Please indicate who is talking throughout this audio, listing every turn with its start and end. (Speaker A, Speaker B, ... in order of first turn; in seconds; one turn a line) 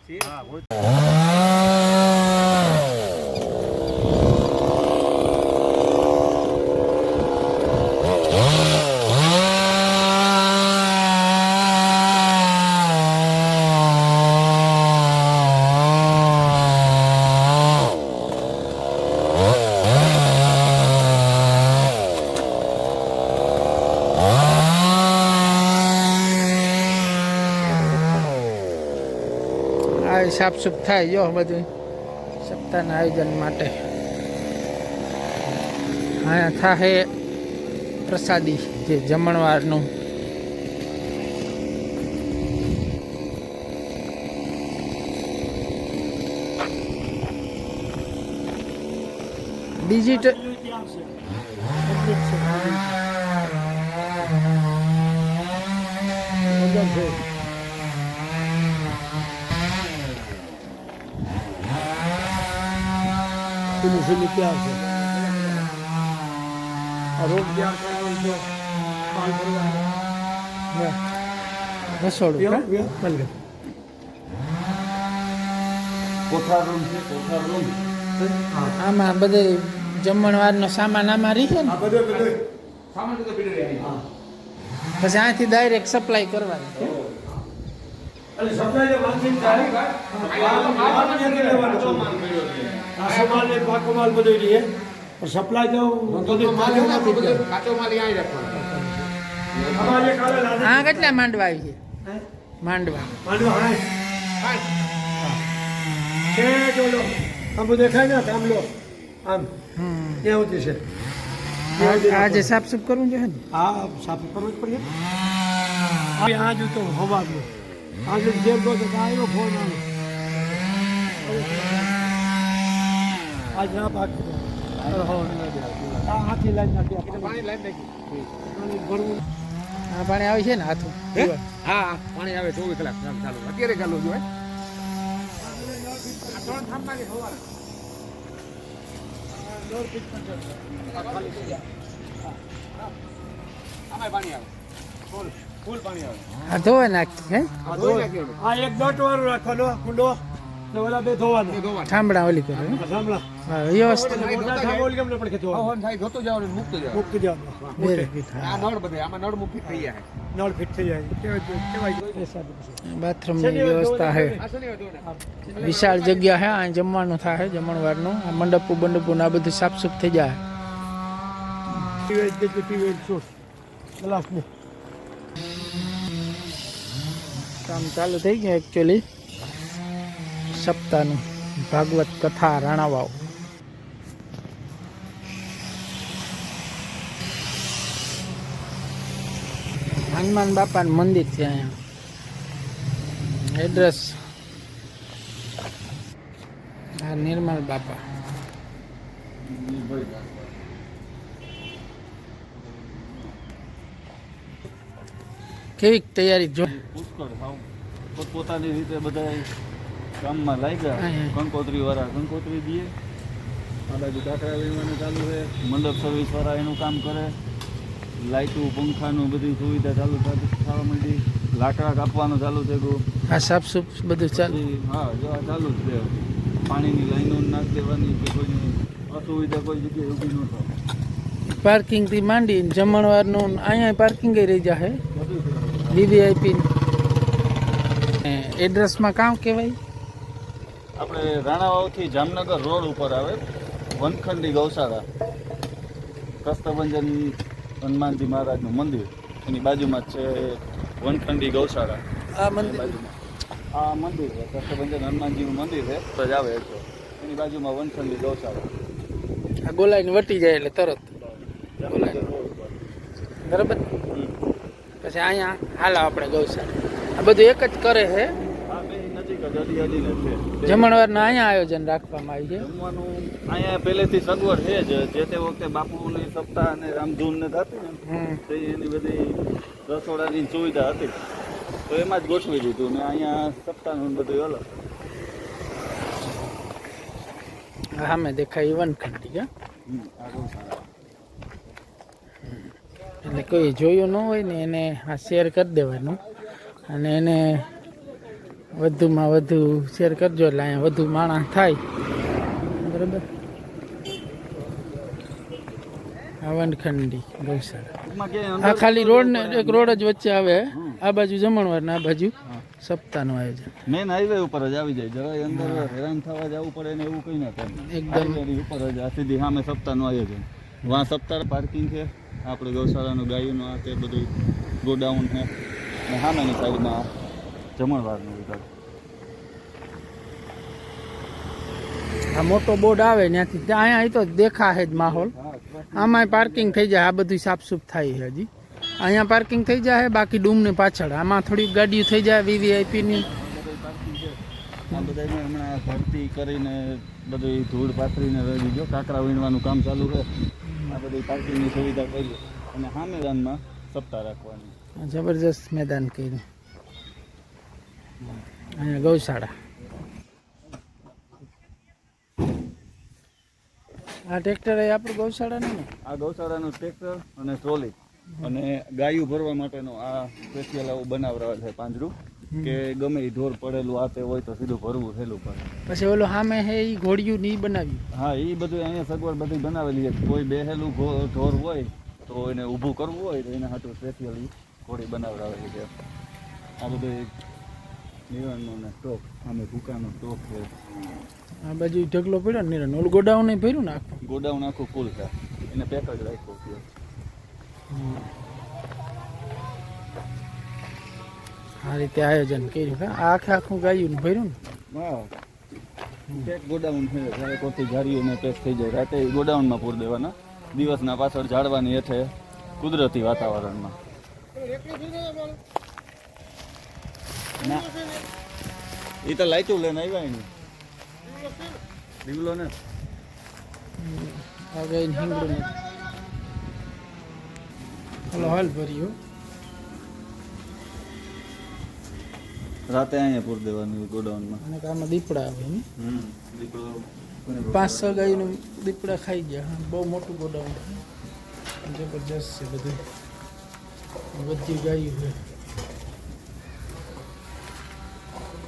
Speaker A: 0.2-0.6
Speaker B: 29.9-31.7
Speaker B: 32.4-33.8
Speaker B: 36.2-37.1
Speaker B: 38.0-39.9
Speaker B: 49.8-50.4
Speaker C: 50.1-51.1
Speaker C: 51.8-53.0
Speaker C: 56.5-57.2
Speaker C: 63.8-64.8
Speaker D: 64.7-65.7
Speaker C: 67.2-68.5
Speaker C: 69.1-69.9
Speaker B: 72.0-72.7
Speaker C: 72.4-73.3
Speaker A: 76.3-77.7
Speaker C: 78.2-78.7
Speaker B: 78.8-81.8
Speaker C: 81.7-82.3
Speaker D: 82.9-83.9
Speaker B: 85.0-86.9
Speaker C: 88.4-92.1
Speaker D: 89.5-92.2
Speaker A: 91.7-92.8
Speaker C: 93.0-97.4
Speaker D: 93.0-93.5
Speaker D: 96.1-98.7
Speaker C: 98.5-99.1
Speaker A: 99.5-100.5
Speaker C: 99.7-101.2
Speaker B: 100.6-101.8
Speaker B: 102.6-103.2
Speaker C: 103.2-103.8
Speaker D: 104.4-104.7
Speaker C: 106.3-108.7
Speaker C: 109.2-109.5
Speaker B: 109.8-110.3
Speaker C: 110.2-110.8
Speaker C: 111.8-112.5
Speaker B: 111.8-113.4
Speaker C: 113.5-114.9
Speaker C: 116.1-117.5
Speaker C: 118.0-119.8
Speaker C: 121.2-122.1
Speaker C: 123.5-125.3
Speaker A: 124.8-126.2
Speaker C: 126.0-127.5
Speaker D: 127.0-128.3
Speaker C: 128.4-129.2
Speaker B: 129.9-131.0
Speaker D: 131.1-134.2
Speaker C: 131.2-131.4
Speaker C: 135.4-136.8
Speaker D: 136.3-137.4
Speaker C: 139.3-141.6
Speaker D: 140.8-141.6
Speaker D: 143.9-144.5
Speaker D: 145.1-146.3
Speaker B: 146.5-147.5
Speaker D: 147.6-148.4
Speaker C: 147.7-151.6
Speaker D: 151.4-151.9
Speaker B: 151.8-152.8
Speaker D: 152.5-153.0
Speaker C: 152.8-153.2
Speaker B: 153.4-154.2
Speaker D: 153.8-154.9
Speaker C: 153.9-155.7
Speaker D: 155.5-157.8
Speaker C: 156.9-158.1
Speaker B: 157.8-158.7
Speaker D: 158.4-160.1
Speaker C: 159.6-162.8
Speaker B: 162.8-164.4
Speaker C: 163.3-164.4
Speaker D: 164.4-166.4
Speaker C: 165.0-165.4
Speaker B: 165.5-170.4
Speaker C: 172.1-173.3
Speaker C: 174.0-174.5
Speaker B: 177.6-179.0
Speaker B: 180.5-183.2
Speaker B: 190.0-191.8
Speaker B: 193.4-194.2
Speaker B: 197.0-198.0
Speaker A: 199.4-200.6
Speaker A: 202.5-203.5
Speaker B: 205.8-206.7
Speaker A: 206.6-207.6
Speaker A: 208.2-209.5
Speaker A: 210.2-212.9
Speaker B: 210.9-211.3
Speaker A: 213.9-217.3
Speaker A: 218.2-223.0
Speaker B: 223.3-224.6
Speaker A: 224.3-230.7
Speaker B: 231.6-235.0
Speaker A: 235.1-236.1
Speaker B: 235.9-236.7
Speaker B: 238.2-239.8
Speaker A: 241.0-243.4
Speaker A: 243.9-245.0
Speaker A: 246.4-253.2
Speaker B: 252.3-252.9
Speaker A: 253.7-258.7
Speaker B: 259.6-261.1
Speaker A: 261.2-262.8
Speaker B: 261.9-262.2
Speaker B: 263.4-263.8
Speaker B: 265.0-268.3
Speaker A: 268.7-271.4
Speaker B: 270.6-272.7
Speaker A: 272.5-281.1
Speaker B: 278.1-278.4
Speaker A: 281.9-284.6
Speaker B: 288.0-289.5
Speaker A: 289.9-290.9
Speaker B: 292.4-296.2
Speaker B: 296.9-297.6
Speaker B: 298.7-301.8
Speaker B: 302.8-303.2
Speaker B: 306.4-307.9
Speaker A: 308.0-310.0
Speaker B: 308.6-313.7
Speaker A: 310.7-311.0
Speaker A: 313.9-325.5
Speaker B: 315.5-315.9
Speaker B: 317.8-318.4
Speaker A: 326.1-327.1
Speaker A: 327.8-328.7
Speaker B: 332.3-335.3
Speaker A: 334.9-336.8
Speaker B: 335.9-338.5
Speaker B: 339.0-343.3
Speaker A: 343.1-350.3
Speaker B: 350.6-351.0
Speaker A: 350.9-354.7
Speaker B: 355.0-356.4
Speaker B: 358.7-359.5
Speaker B: 364.3-365.9
Speaker A: 366.0-375.7
Speaker B: 372.5-372.8
Speaker B: 375.9-378.0
Speaker A: 378.1-385.9
Speaker A: 386.8-387.3
Speaker A: 388.3-390.7
Speaker B: 391.6-394.2
Speaker A: 394.2-396.8
Speaker B: 397.9-398.3
Speaker B: 401.8-404.6
Speaker A: 404.9-405.3
Speaker A: 406.3-413.9
Speaker D: 414.7-415.6
Speaker A: 417.6-417.9
Speaker A: 419.2-420.5
Speaker D: 421.3-421.8
Speaker A: 422.2-422.7
Speaker B: 424.0-425.8
Speaker A: 428.3-428.8
Speaker B: 428.3-429.1
Speaker A: 432.9-434.6
Speaker B: 434.6-435.9
Speaker A: 435.9-438.6
Speaker B: 437.7-441.0
Speaker B: 441.8-443.0
Speaker B: 444.3-445.4